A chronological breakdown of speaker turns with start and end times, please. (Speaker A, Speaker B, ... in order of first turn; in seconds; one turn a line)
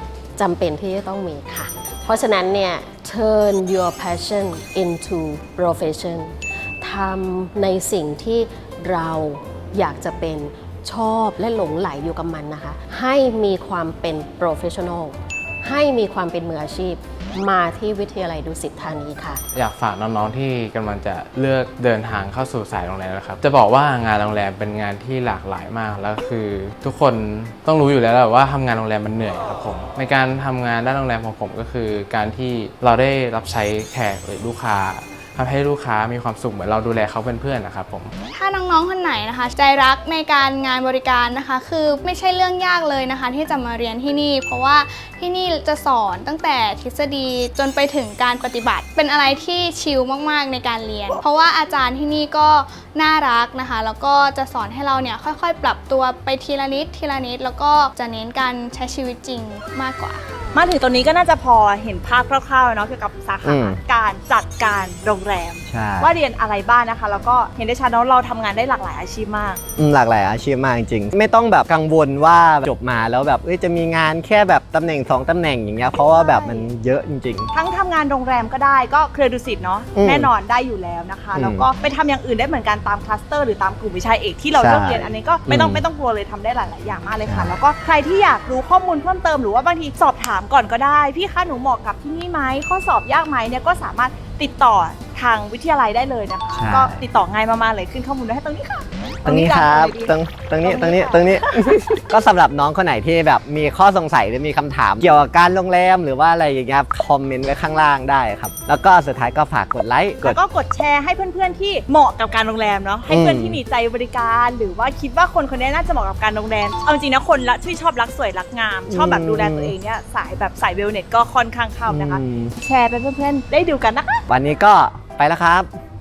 Speaker A: 0.4-19.4
Speaker B: 19.5-38.1
Speaker C: 38.3-60.2
Speaker D: 60.5-69.6
Speaker E: 63.4-63.8
Speaker E: 65.7-66.1
Speaker E: 69.8-77.5
Speaker D: 76.1-76.7
Speaker D: 77.5-101.7
Speaker E: 80.0-80.3
Speaker E: 81.3-81.7
Speaker E: 84.6-85.8
Speaker E: 87.2-87.5
Speaker E: 96.5-97.0
Speaker E: 99.2-110.4
Speaker D: 110.2-124.2
Speaker E: 113.1-113.6
Speaker E: 118.9-119.7
Speaker E: 121.9-122.5
Speaker E: 124.3-125.7